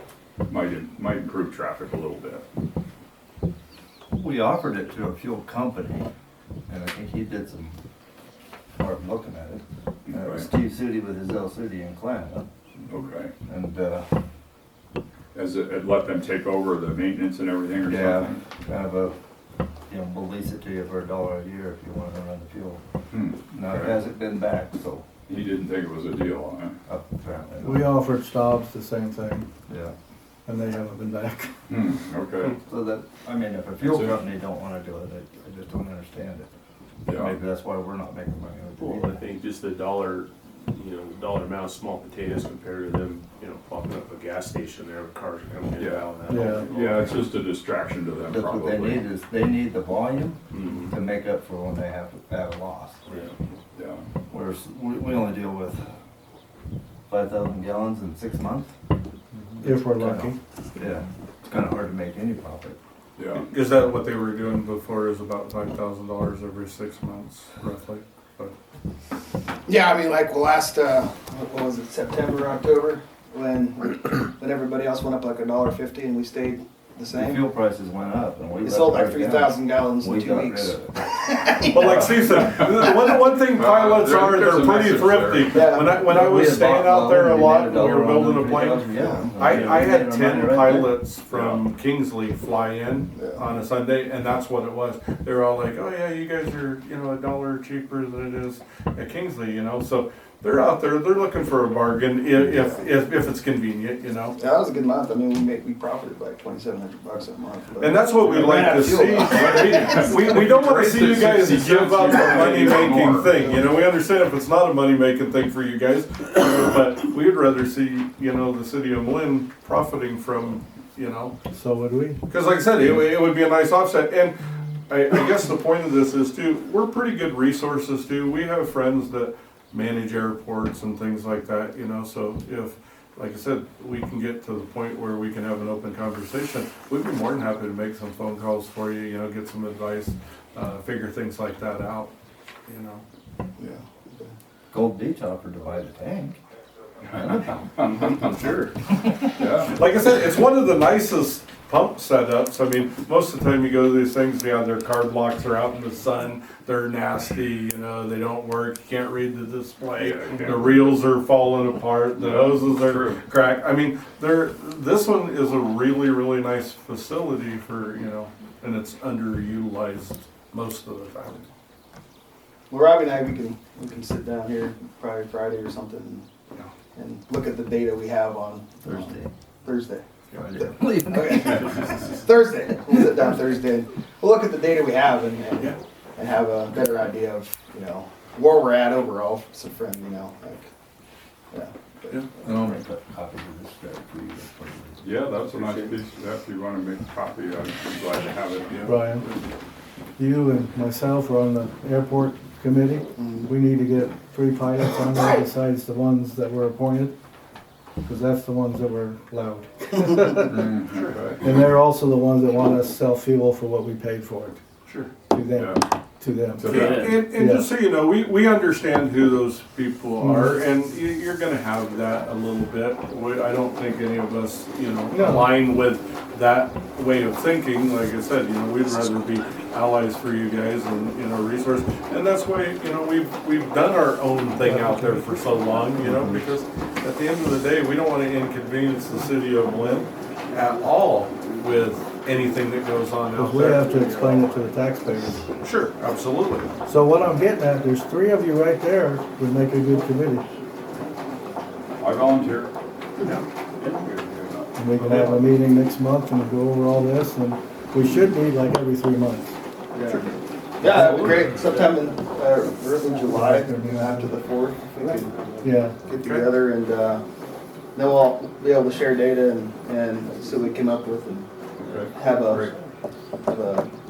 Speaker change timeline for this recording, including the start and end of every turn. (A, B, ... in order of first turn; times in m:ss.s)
0:00.5-0:02.4 A
0:04.1-0:06.1 B
0:06.7-0:07.8 B
0:08.8-0:12.5 B
0:10.1-0:10.5 A
0:12.9-0:13.3 A
0:13.4-0:14.2 B
0:15.3-0:18.4 A
0:17.9-0:19.2 B
0:19.9-0:22.8 B
0:23.1-0:24.0 A
0:23.5-0:25.1 B
0:25.3-0:26.8 A
0:26.9-0:27.9 B
0:27.6-0:29.5 C
0:29.7-0:29.9 B
0:30.5-0:31.5 C
0:31.7-0:32.6 A
0:32.6-0:36.5 B
0:33.8-0:34.2 A
0:37.1-0:37.4 A
0:37.1-0:39.2 B
0:38.8-0:47.4 D
0:45.8-0:49.1 A
0:46.3-0:46.7 C
0:48.3-0:53.0 B
0:50.5-0:51.0 D
0:53.1-0:53.3 D
0:53.7-0:54.0 A
0:54.3-0:55.8 B
0:57.1-0:58.7 B
0:59.3-0:59.7 D
0:59.6-1:00.4 C
0:59.8-1:02.8 B
1:03.2-1:03.5 A
1:03.4-1:08.6 E
1:09.7-1:17.5 F
1:17.1-1:22.0 B
1:18.6-1:22.6 F
1:21.7-1:44.4 E
1:22.4-1:22.8 A
1:23.5-1:25.7 A
1:25.5-1:26.0 F
1:26.0-1:31.0 B
1:29.0-1:29.3 F
1:29.5-1:29.9 D
1:31.3-1:31.6 A
1:33.1-1:33.4 F
1:42.4-1:42.9 F
1:44.4-1:50.1 F
1:47.8-2:01.4 E
1:49.0-1:53.4 A
2:01.5-2:02.2 C
2:02.3-2:22.1 E
2:22.7-2:23.0 E
2:23.6-2:24.3 F
2:24.7-2:26.4 B
2:27.0-2:28.7 A
2:27.2-2:28.3 B
2:29.4-2:29.8 A
2:29.7-2:51.5 E
2:40.0-2:41.0 A
2:42.2-2:43.2 A
2:52.7-2:56.3 F
2:57.0-3:00.1 F
2:58.8-2:59.3 B
3:00.4-3:01.8 B
3:00.6-3:10.7 F
3:11.5-3:12.6 F
3:12.4-3:15.1 B
3:15.0-3:19.3 A
3:15.4-3:16.0 D
3:18.8-3:19.2 C
3:20.2-3:27.1 C
3:23.2-3:23.5 F
3:28.0-3:30.6 C
3:30.5-3:31.5 A
3:31.4-3:34.6 C
3:35.3-3:37.7 C
3:35.6-3:35.8 A
3:36.6-3:37.2 A
3:36.6-4:04.7 E
3:36.7-3:37.2 D
3:40.2-3:40.6 C
3:45.1-3:45.6 C
3:54.6-3:56.5 C
4:03.3-4:05.5 C
4:05.6-4:06.8 E
4:06.9-4:10.4 C
4:12.0-4:12.7 A
4:13.3-4:14.1 D
4:14.0-4:14.7 A
4:14.8-4:19.6 C
4:15.0-4:15.4 E
4:19.9-4:27.2 F
4:20.9-4:22.1 D
4:23.3-4:24.4 C
4:25.6-4:26.0 C
4:26.2-4:26.5 E
4:27.9-4:31.5 F
4:31.8-4:32.1 A
4:32.1-4:32.7 F
4:33.5-4:33.9 F